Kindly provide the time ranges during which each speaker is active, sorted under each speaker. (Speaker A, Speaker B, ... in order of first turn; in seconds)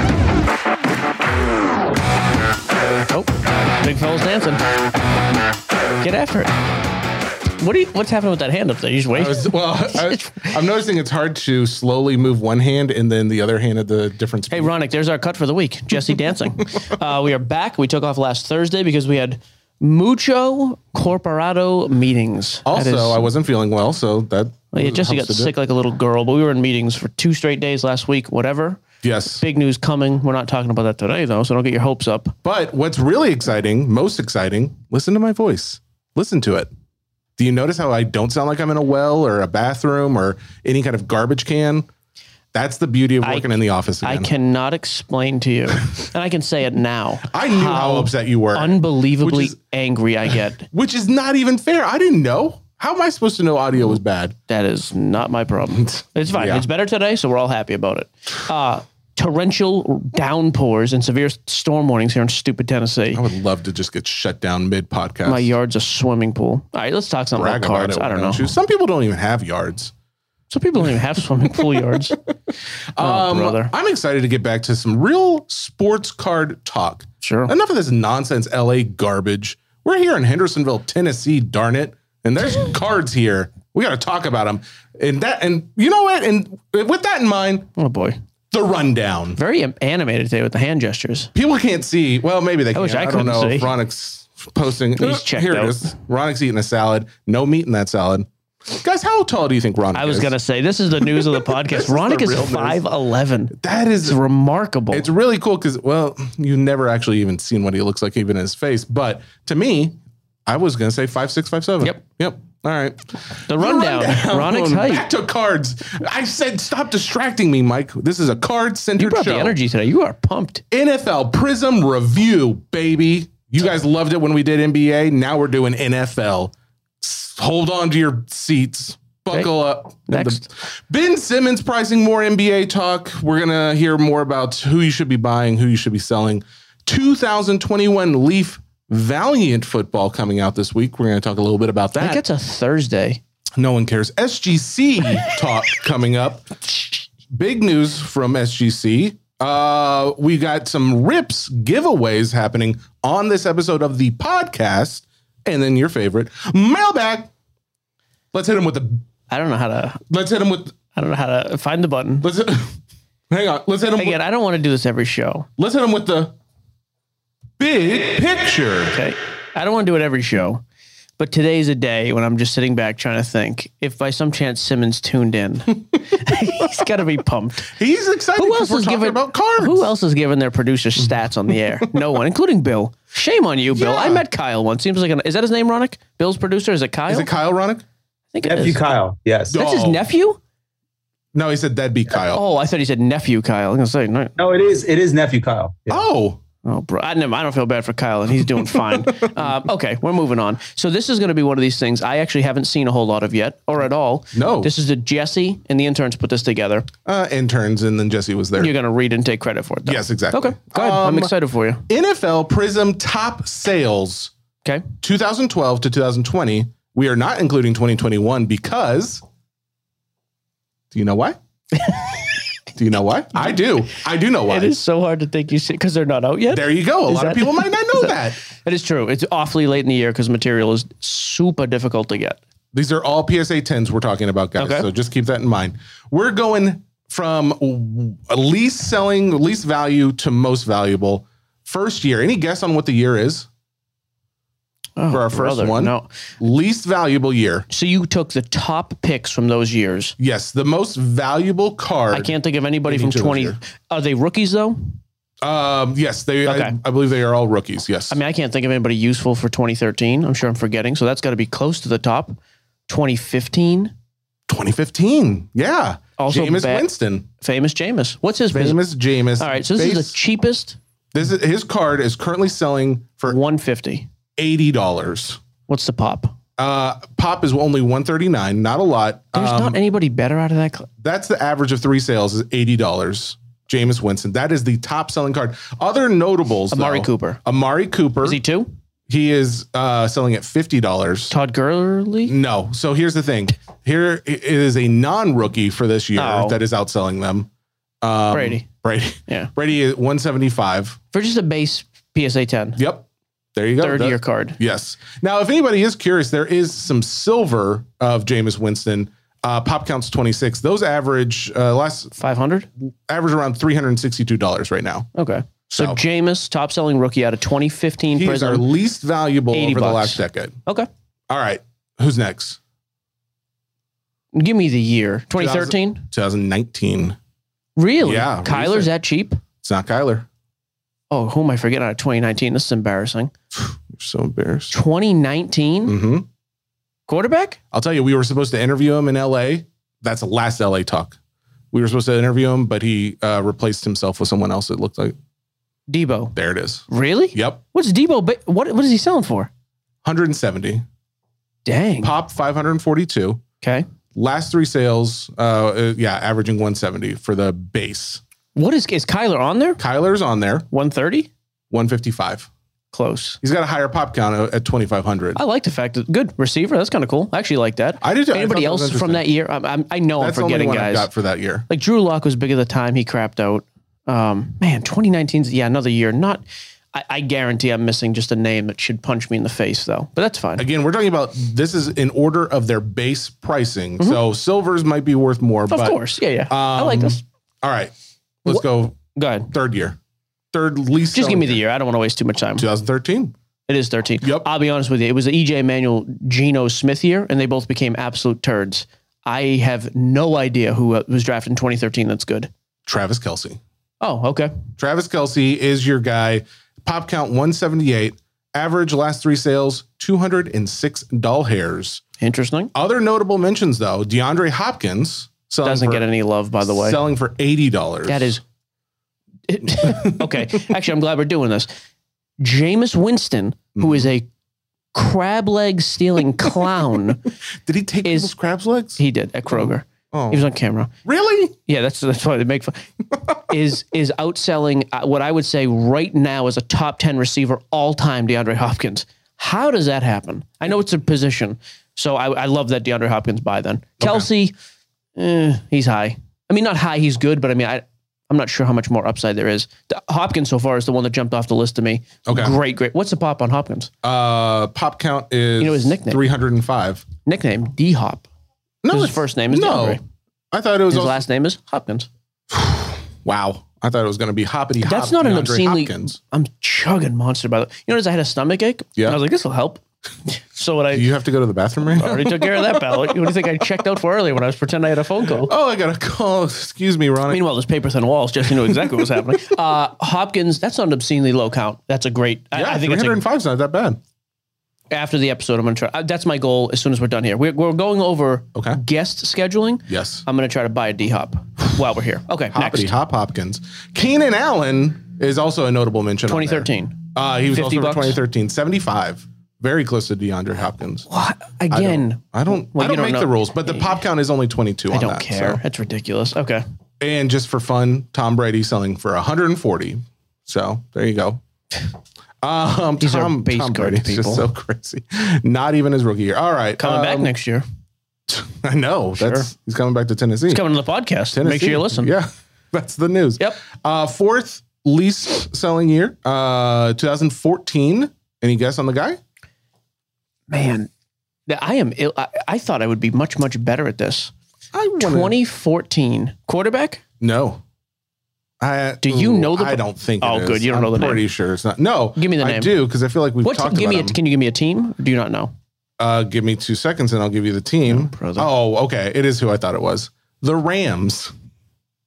Speaker A: 3.1-4.6, 6.0-6.6, 7.6-10.6, 14.5-23.3, 24.7-32.4, 43.2-50.7, 54.5-63.2, 65.3-68.5, 70.5-72.2, 73.0-73.7, 77.2-77.5, 87.8-88.2, 89.4-91.3, 92.7-93.7, 95.0-95.9, 99.9-105.1, 113.5-115.1, 119.0-120.6, 130.1-130.4, 142.0-143.2, 159.3-160.0, 160.9-162.3, 164.0-165.5, 168.9-170.6, 171.2-177.7, 178.4-187.3, 188.3-188.8, 189.5-190.4, 192.3-194.3, 196.7-206.9, 208.6-211.8, 221.9-222.2, 224.5-232.4, 234.6-234.9, 245.0-246.1, 247.7-250.2, 252.1-255.0, 256.4-256.8, 258.1-262.4, 262.9-263.9, 266.2-268.8, 269.4-270.8, 273.3-274.1, 275.7-276.4, 279.3-280.9, 286.7-287.4, 288.2-288.7, 291.3-292.4, 296.1-296.6, 298.3-298.7, 301.1-302.8, 303.8-304.6, 312.1-312.7, 315.1-318.7, 319.5-320.9, 324.3-326.1, 327.8-329.4, 331.1-333.3, 334.7-336.0, 337.1-337.6, 345.9-346.4, 346.9-349.5, 351.6-352.1, 353.6-353.9, 358.6-359.8, 360.7-361.3, 362.9-363.4, 365.4-371.1, 371.7-380.7, 385.7-387.2, 388.5-389.5, 391.1-392.7, 393.7-402.5, 404.0-404.5, 412.2-412.7, 415.6-417.0, 418.1-418.4, 419.5-421.7, 422.4-424.3, 424.9-427.2, 428.1-428.3, 429.0-430.9, 431.7-432.9, 433.4-444.5, 445.2-453.9, 455.6-456.2, 457.2-458.3, 458.9-460.0, 460.9-462.1, 464.8-471.1, 472.0-475.5, 477.3-483.2, 484.9-492.9, 496.3-498.2, 501.1-504.0, 504.9-506.6, 513.0-514.5, 516.8-517.6, 519.2-519.5, 520.5-522.1, 530.5-530.9, 531.5-534.3, 535.0-537.0, 539.0-541.2, 542.2-542.8, 543.4-545.5, 547.9-548.5
Speaker B: 9.1-14.7, 22.7-25.6, 29.0-29.4, 32.4-36.7, 37.4-41.9, 42.5-44.3, 47.3-49.6, 50.3-54.4, 55.9-56.7, 63.1-65.5, 67.3-69.9, 71.5-72.0, 72.9-87.7, 88.5-89.4, 91.3-100.3, 101.0-102.8, 103.5-104.2, 104.9-119.6, 120.7-142.2, 143.6-157.3, 158.3-159.0, 160.1-160.8, 162.2-162.8, 163.3-164.2, 165.6-166.3, 167.6-169.0, 177.7-179.9, 183.7-184.2, 187.1-187.8, 189.5-190.1, 191.3-192.4, 195.9-196.4, 198.4-199.4, 204.3-204.7, 207.1-208.7, 209.9-211.3, 211.9-214.3, 215.0-219.2, 220.9-221.4, 222.8-224.8, 226.5-228.4, 232.7-243.5, 245.1-247.7, 250.2-252.3, 252.8-253.6, 255.4-258.2, 264.5-267.3, 268.5-270.1, 271.1-273.4, 274.4-275.4, 276.6-279.8, 281.0-288.4, 289.1-291.4, 292.3-297.5, 298.0-301.0, 302.8-312.1, 313.1-315.1, 315.7-316.0, 318.1-320.6, 321.3-322.6, 325.4-327.2, 328.0-328.9, 329.6-330.3, 333.6-334.8, 335.9-336.3, 337.7-341.2, 341.7-345.2, 346.4-347.6, 350.0-350.9, 352.0-353.4, 354.1-358.2, 359.8-360.7, 361.7-362.5, 363.4-365.4, 368.0-369.3, 370.2-371.7, 380.6-387.9, 388.4-389.0, 389.5-390.0, 390.5-391.6, 392.6-393.3, 394.2-394.5, 402.9-403.6, 404.8-412.0, 412.7-416.1, 416.6-418.4, 419.8-420.3, 423.8-424.1, 427.6-430.5, 431.1-431.6, 444.0-444.3, 452.3-452.6, 454.0-457.1, 458.8-460.0, 460.5-461.2, 462.5-466.2, 470.9-473.2, 475.3-477.5, 478.6-479.1, 482.5-484.0, 488.6-488.8, 489.9-490.2, 492.5-501.1, 501.7-505.6, 507.0-511.4, 512.4-517.3, 518.3-520.6, 521.3-529.2, 534.7-535.4, 537.2-537.6, 538.6-544.2, 546.0-551.3
Speaker C: 188.4-189.6, 194.4-196.0